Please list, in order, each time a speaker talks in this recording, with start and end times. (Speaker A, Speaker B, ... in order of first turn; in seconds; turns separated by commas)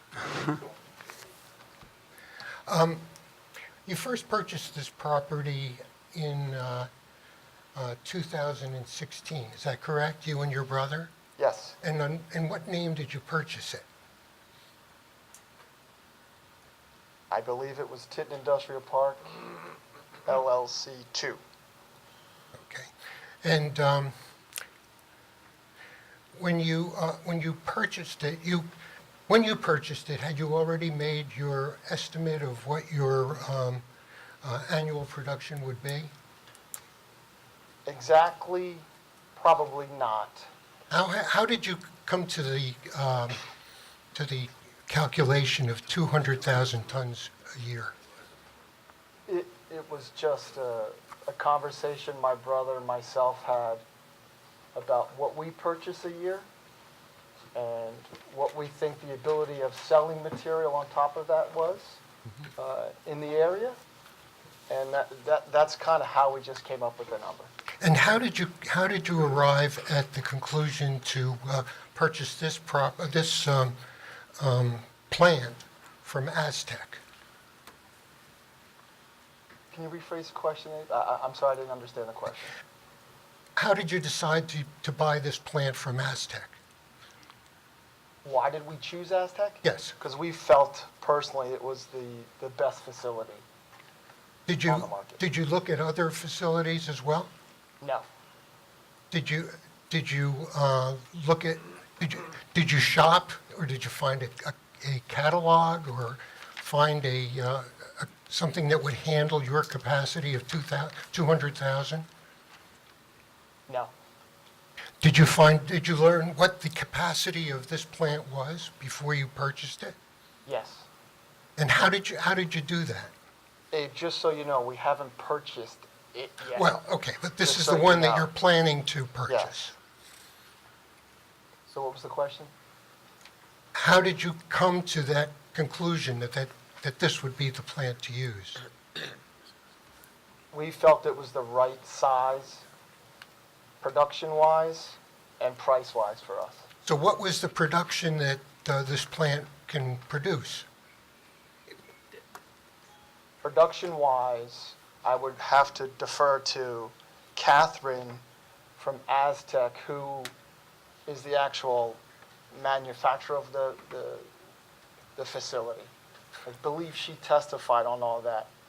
Speaker A: 2.7-3.0, Speaker A: 3.9-6.9, Speaker A: 7.8-11.1, Speaker B: 11.4-11.8, Speaker A: 11.8-13.8, Speaker B: 17.3-19.4, Speaker B: 20.3-21.4, Speaker A: 22.6-22.9, Speaker A: 23.4-24.1, Speaker A: 26.3-28.7, Speaker A: 29.3-33.8, Speaker A: 34.4-36.1, Speaker B: 37.9-40.5, Speaker A: 40.9-43.4, Speaker A: 44.1-48.0, Speaker B: 49.3-53.8, Speaker B: 54.7-56.5, Speaker B: 57.5-62.0, Speaker B: 62.6-63.8, Speaker B: 64.7-67.5, Speaker A: 67.8-73.8, Speaker A: 74.4-77.0, Speaker B: 79.7-82.5, Speaker A: 83.6-86.6, Speaker B: 88.2-93.4, Speaker A: 89.6-89.9, Speaker A: 94.5-97.3, Speaker B: 94.7-95.2, Speaker B: 97.8-98.0, Speaker A: 99.1-112.1, Speaker B: 113.7-113.9, Speaker A: 115.0-120.0, Speaker B: 120.5-120.9, Speaker A: 121.6-123.1, Speaker B: 123.7-126.7, Speaker A: 126.5-129.7, Speaker B: 127.4-128.3, Speaker B: 129.3-129.7, Speaker B: 131.7-132.5, Speaker A: 133.8-138.6, Speaker B: 140.5-142.7, Speaker B: 143.8-146.7, Speaker A: 146.9-150.7, Speaker B: 153.4-158.2, Speaker B: 158.8-160.3, Speaker B: 161.1-164.3, Speaker B: 165.2-165.9, Speaker B: 166.4-168.5